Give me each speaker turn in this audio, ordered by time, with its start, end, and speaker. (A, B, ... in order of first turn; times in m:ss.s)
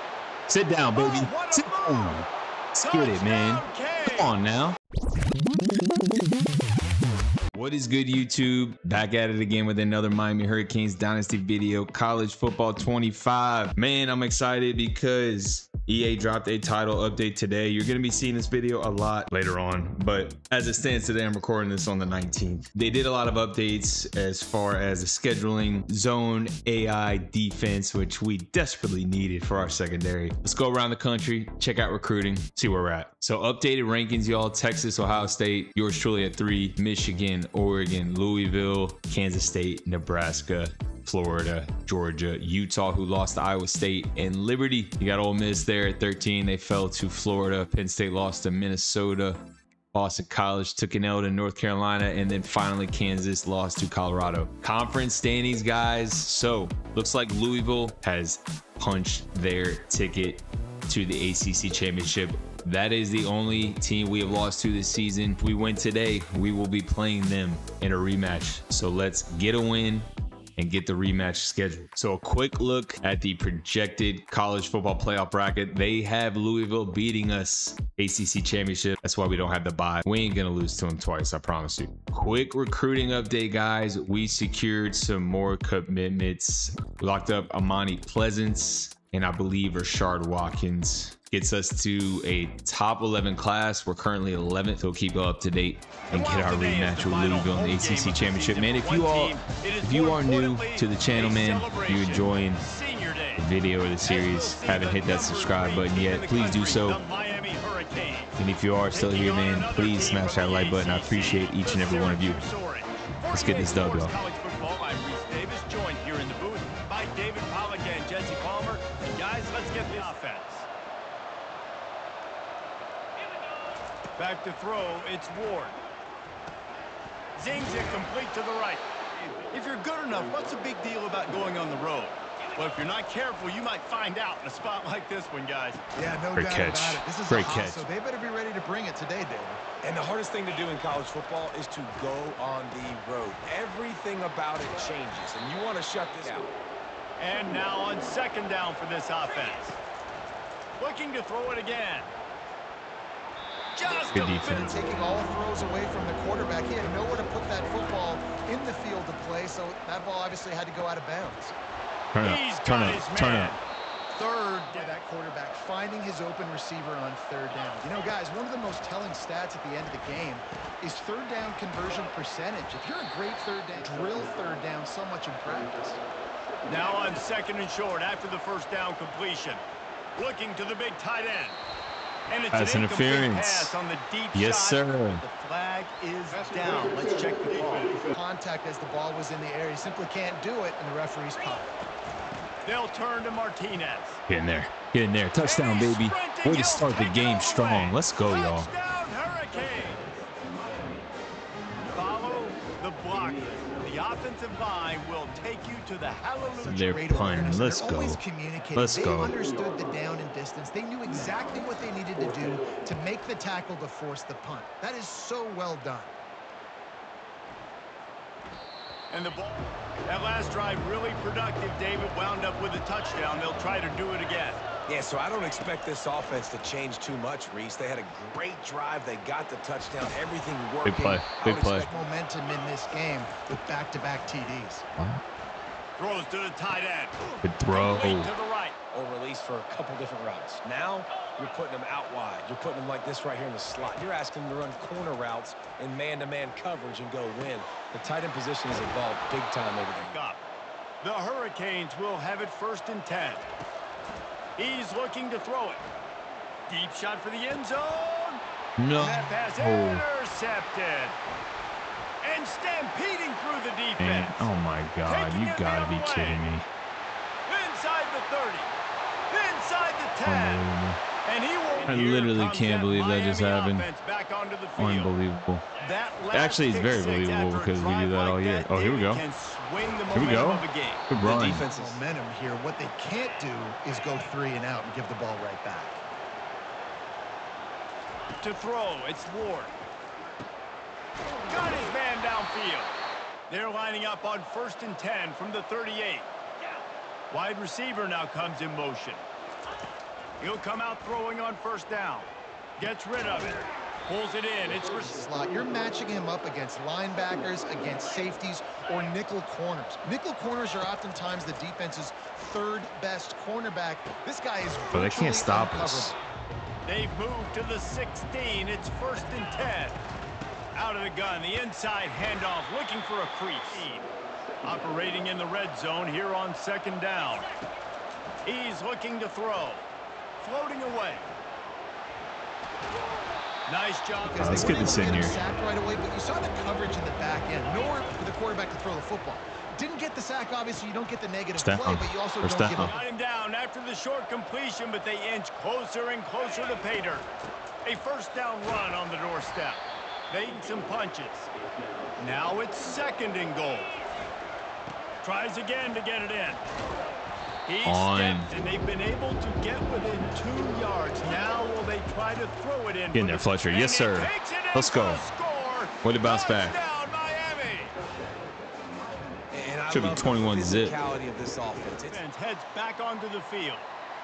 0:00.5-0:04.8 A
0:00.9-0:02.3 B
0:02.9-0:04.4 B
0:07.5-0:49.4 A
0:49.9-1:42.6 A
1:36.1-1:43.5 B
1:43.4-1:47.0 A
1:44.0-1:48.4 B
1:48.4-1:52.4 A
1:48.9-2:00.7 B
1:53.3-1:54.1 A
2:04.2-2:05.8 B
2:07.4-2:08.9 B
2:09.5-2:15.8 B
2:16.0-2:19.6 C
2:16.4-2:17.9 A
2:19.8-2:26.5 D
2:27.2-2:29.8 B
2:30.8-2:32.1 B
2:33.7-2:34.8 B
2:34.1-2:34.8 A
2:34.6-2:41.6 C
2:42.1-2:43.6 A
2:42.2-2:45.0 B
2:44.7-2:56.0 C
2:56.7-2:59.6 B
3:00.2-3:01.6 B
3:02.3-3:08.0 B
3:02.5-3:03.8 A
3:04.4-3:05.2 A
3:08.1-3:11.8 C
3:12.6-3:14.2 B
3:14.3-3:18.7 A
3:15.4-3:20.2 B
3:21.8-3:27.2 B
3:26.6-3:28.2 A
3:26.8-3:36.1 C
3:28.7-3:29.3 A
3:39.1-3:44.6 B
3:44.9-3:51.6 D
3:50.8-3:51.9 A
3:51.0-3:54.9 C
3:56.0-3:58.8 B
3:57.4-3:58.3 A
3:58.9-4:10.2 D
4:09.9-4:10.4 B
4:11.0-4:13.5 B
4:14.6-4:15.8 B
4:16.7-4:18.4 B
4:18.8-4:20.0 A
4:19.0-4:21.2 B
4:22.2-4:24.5 B
4:24.0-4:26.7 A
4:25.1-4:26.5 B
4:27.5-4:28.7 B
4:29.3-4:30.6 B
4:30.2-4:31.0 A
4:31.2-4:35.1 B
4:31.9-4:33.9 A
4:34.8-4:35.7 A
4:35.8-4:41.1 B
4:36.3-4:39.2 A
4:40.1-4:41.6 A
4:41.2-4:42.0 D
4:41.3-4:46.0 C
4:48.4-4:49.7 B
4:51.5-4:52.9 B
4:53.5-4:56.3 B
4:57.3-4:59.2 B
5:00.4-5:05.2 B
5:04.7-5:16.2 C
5:14.9-5:16.2 A
5:16.9-5:20.0 B
5:20.8-5:24.1 B
5:24.6-5:27.5 B
5:28.4-5:29.9 B
5:30.4-5:31.3 B
5:33.7-5:34.9 B
5:34.2-5:43.0 C
5:34.4-5:35.4 A
5:41.6-5:42.9 A
5:42.8-5:47.3 B
5:47.8-5:51.5 B
5:52.2-5:53.9 B
5:55.2-5:56.6 B
5:57.7-6:08.0 B
5:57.8-5:58.5 A
6:03.1-6:05.2 A
6:06.0-6:06.8 A
6:09.5-6:12.2 D
6:09.9-6:11.0 A
6:12.0-6:13.9 B